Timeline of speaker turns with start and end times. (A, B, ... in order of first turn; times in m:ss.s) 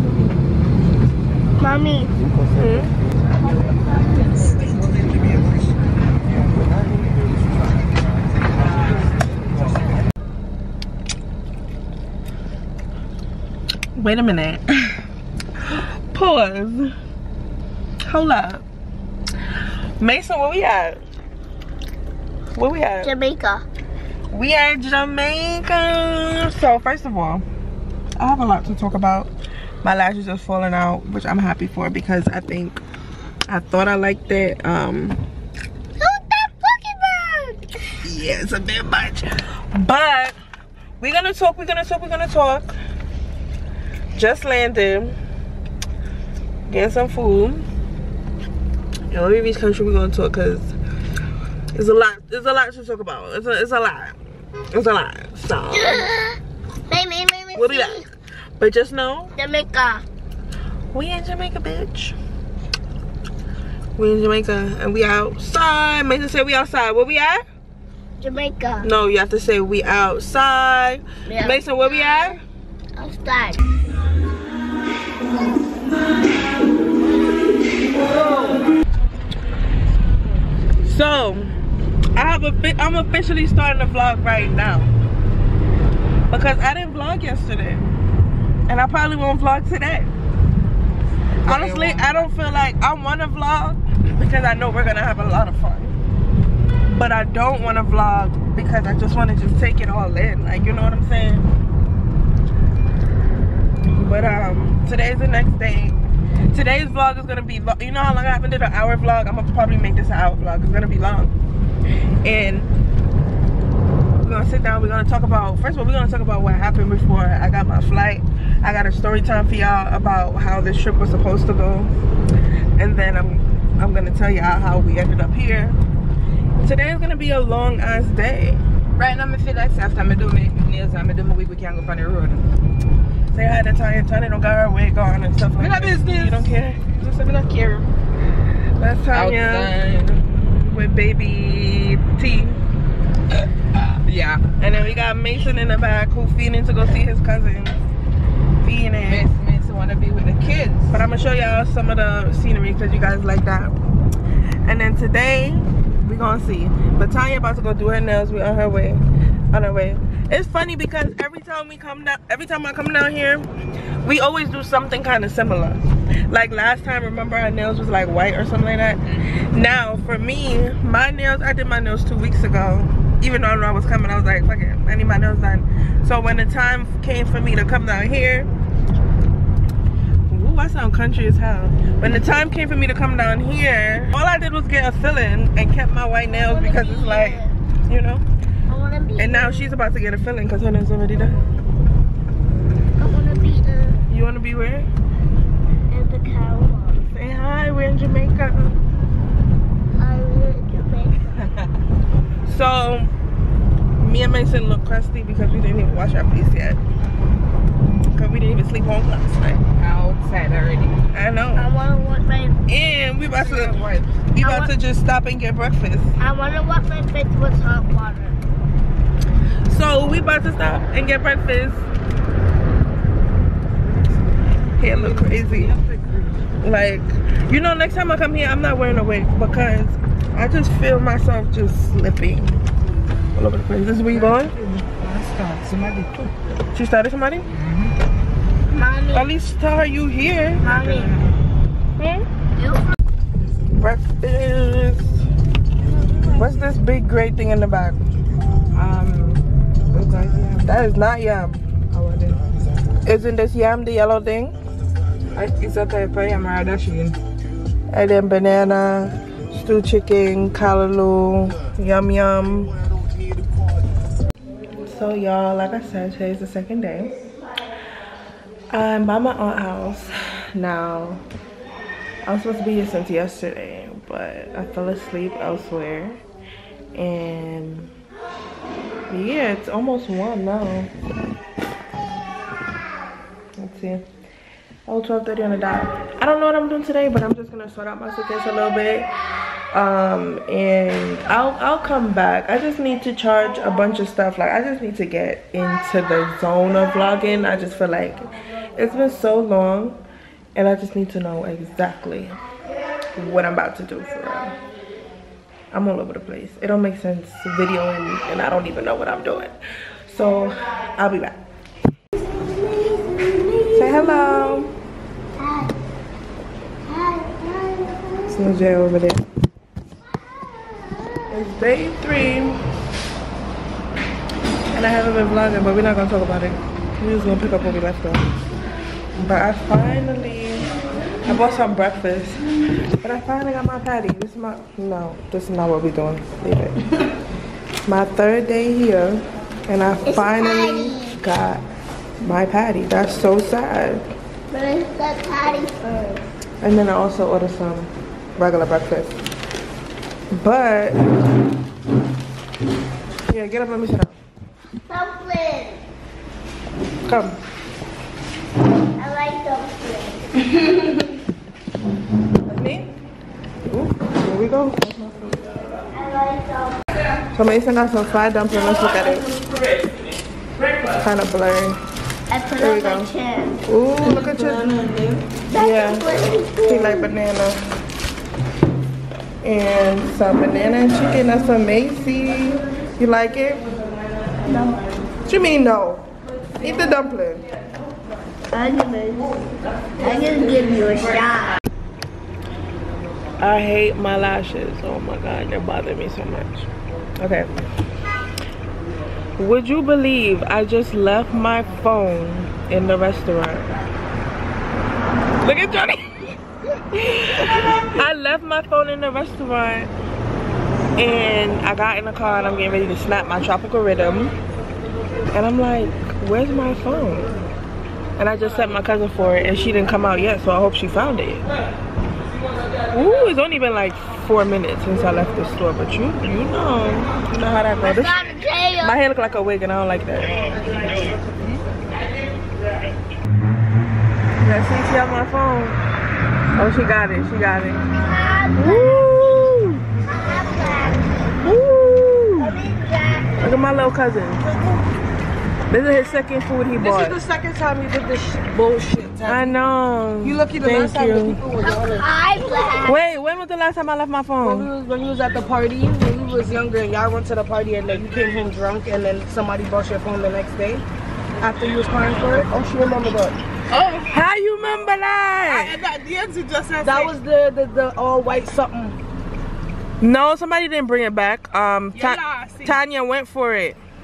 0:01.6-0:02.1 A
0:02.5-0:02.9 B
0:14.0-0:15.0 B
0:15.6-0:16.9 B
0:18.1-0:18.6 B
0:19.5-0:21.0 B
0:22.6-0:23.1 B
0:23.0-0:23.6 A
0:24.3-0:27.4 B
0:28.2-0:29.3 B
0:29.8-0:32.8 B
0:33.5-0:35.3 B
0:36.0-0:37.7 A
0:38.0-0:40.4 B
0:41.0-0:42.8 B
0:44.2-0:45.2 B
0:46.7-0:47.6 B
0:49.1-0:50.8 B
0:51.7-0:54.2 B
0:54.7-0:56.1 B
0:55.8-0:58.1 A
0:57.5-0:59.3 B
0:59.4-1:00.0 A
1:00.9-1:02.2 B
1:04.0-1:07.4 B
1:08.2-1:08.9 A
1:08.8-1:12.4 B
1:11.3-1:12.4 A
1:13.0-1:13.6 A
1:20.8-1:21.5 B
1:22.2-1:24.9 B
1:26.3-1:27.9 B
1:28.7-1:30.1 B
1:31.4-1:32.3 C
1:31.4-1:36.0 B
1:36.9-1:41.5 B
1:43.9-1:51.4 B
1:52.2-1:52.7 B
1:54.2-2:01.9 B
2:02.8-2:05.8 B
2:06.6-2:08.6 B
2:09.0-2:12.5 C
2:13.3-2:16.8 B
2:15.6-2:17.9 C
2:18.8-2:19.8 B
2:19.1-2:20.2 C
2:20.4-2:22.6 B
2:24.0-2:24.5 C
2:24.6-2:27.8 B
2:28.6-2:29.3 B
2:29.1-2:31.0 C
2:30.9-2:33.7 B
2:34.6-2:43.5 B
2:44.0-2:58.5 B
3:00.3-3:08.2 B
3:06.3-3:07.6 A
3:08.7-3:09.8 A
3:09.2-3:11.4 B
3:13.0-3:14.0 A
3:14.1-3:14.9 B
3:15.9-3:17.0 A
3:17.1-3:18.8 B
3:20.0-3:21.4 A
3:22.5-3:23.1 B
3:24.0-3:26.8 B
3:28.1-3:29.6 B
3:29.8-3:31.0 C
3:31.1-3:31.7 B
3:31.6-3:32.6 A
3:32.7-3:33.8 B
3:33.3-3:34.1 C
3:34.3-3:36.2 B
3:34.4-3:34.7 A
3:36.2-3:38.4 A
3:39.7-3:41.9 B
3:44.8-3:45.7 B
3:44.8-3:46.5 C
3:46.6-3:52.6 B
3:53.4-3:54.6 B
3:54.1-3:56.3 C
3:56.7-3:57.5 B
3:58.7-3:59.3 A
3:59.1-4:00.7 B
4:00.6-4:01.2 A
4:00.6-4:01.3 C
4:02.0-4:02.3 B
4:02.6-4:02.8 A
4:03.7-4:05.2 B
4:05.8-4:06.5 C
4:06.4-4:08.0 B
4:08.7-4:12.4 B
4:13.0-4:14.6 B
4:15.4-4:17.2 C
4:17.9-4:22.8 B
4:24.7-4:27.2 B
4:28.7-4:31.2 B
4:32.2-4:36.2 B
4:36.9-4:37.9 B
4:39.1-4:41.0 B
4:43.6-4:44.1 B
4:44.9-4:49.1 B
4:49.7-5:00.0 B
5:00.6-5:02.4 B
5:03.2-5:04.6 B
5:05.7-5:11.4 B
5:12.4-5:14.3 A
5:13.7-5:14.7 B
5:15.4-5:15.7 A
5:16.9-5:18.4 A
5:18.3-5:19.2 B
5:21.3-5:22.6 B
5:24.7-5:28.3 B
5:29.2-5:30.7 B
5:31.2-5:32.4 B
5:33.0-5:36.8 B
5:37.9-5:41.6 B
5:40.0-5:41.2 A
5:42.2-5:44.1 B
5:44.5-5:46.2 A
5:46.6-5:49.2 B
5:50.3-5:51.1 B
5:53.3-5:54.2 B
5:54.9-5:55.9 A
5:57.1-5:57.4 B
5:59.0-6:00.5 A
6:02.4-6:02.9 B
6:03.7-6:05.5 B
6:05.9-6:06.8 A
6:07.3-6:09.3 B
6:10.9-6:11.8 B
6:12.3-6:13.6 A
6:12.6-6:13.1 B
6:13.6-6:14.7 B
6:14.0-6:15.3 C
6:15.5-6:17.1 A
6:15.6-6:17.7 B
6:19.4-6:23.7 B
6:24.4-6:24.9 A
6:25.3-6:26.1 B
6:26.6-6:27.5 B
6:28.5-6:29.4 A
6:30.0-6:31.6 A
6:33.4-6:37.5 B
6:39.4-6:43.7 B
6:45.4-6:46.3 B
6:46.9-6:49.9 B
6:51.0-6:54.4 B
6:55.3-6:57.3 B
6:58.2-7:01.5 B
7:02.9-7:08.2 B
7:07.8-7:09.0 A
7:08.8-7:11.0 B
7:14.4-7:15.8 B
7:16.6-7:17.9 B
7:18.0-7:19.2 A
7:18.6-7:19.8 B
7:20.1-7:21.1 A
7:21.4-7:22.6 B
7:22.4-7:23.5 A
7:23.4-7:24.5 B
7:24.4-7:24.8 C
7:25.7-7:27.2 B
7:26.8-7:29.6 C
7:29.3-7:31.4 B
7:30.2-7:32.1 C
7:31.6-7:33.0 A
7:32.8-7:34.7 B
7:34.4-7:40.8 C
7:41.4-7:44.1 C
7:44.1-7:45.8 B
7:45.4-7:49.0 C
7:46.8-7:47.1 B
7:50.0-7:53.8 B
7:52.0-7:52.8 C